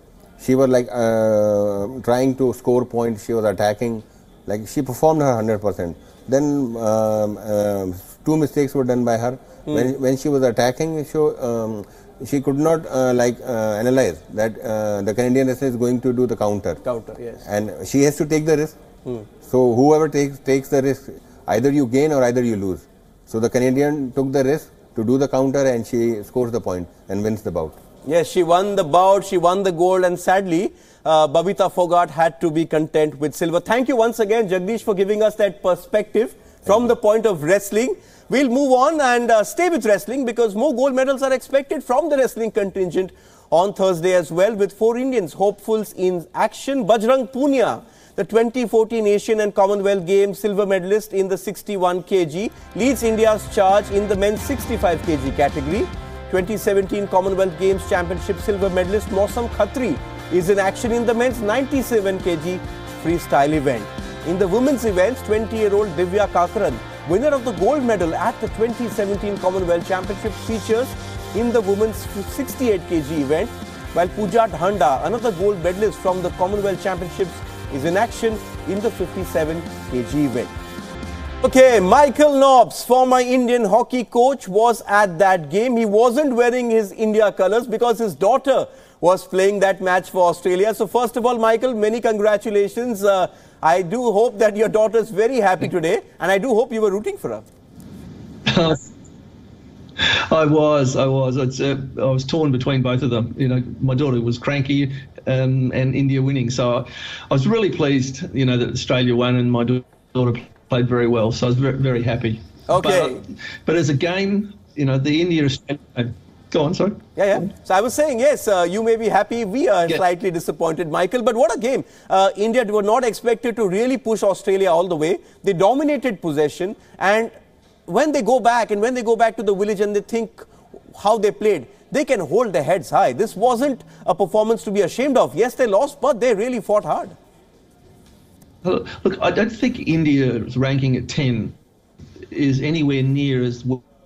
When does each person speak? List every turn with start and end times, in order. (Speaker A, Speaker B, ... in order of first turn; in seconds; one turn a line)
Speaker A: 0.4-16.8
Speaker B: 16.8-17.4
Speaker A: 17.4-18.7
Speaker A: 19.4-27.8
Speaker B: 28.1-80.5
Speaker B: 81.4-97.5
Speaker C: 98.5-98.8
Speaker C: 100.0-117.4
Speaker B: 112.7-113.2
Speaker B: 117.2-127.3
Speaker B: 127.9-137.1
Speaker C: 138.6-141.6
Speaker C: 142.3-143.8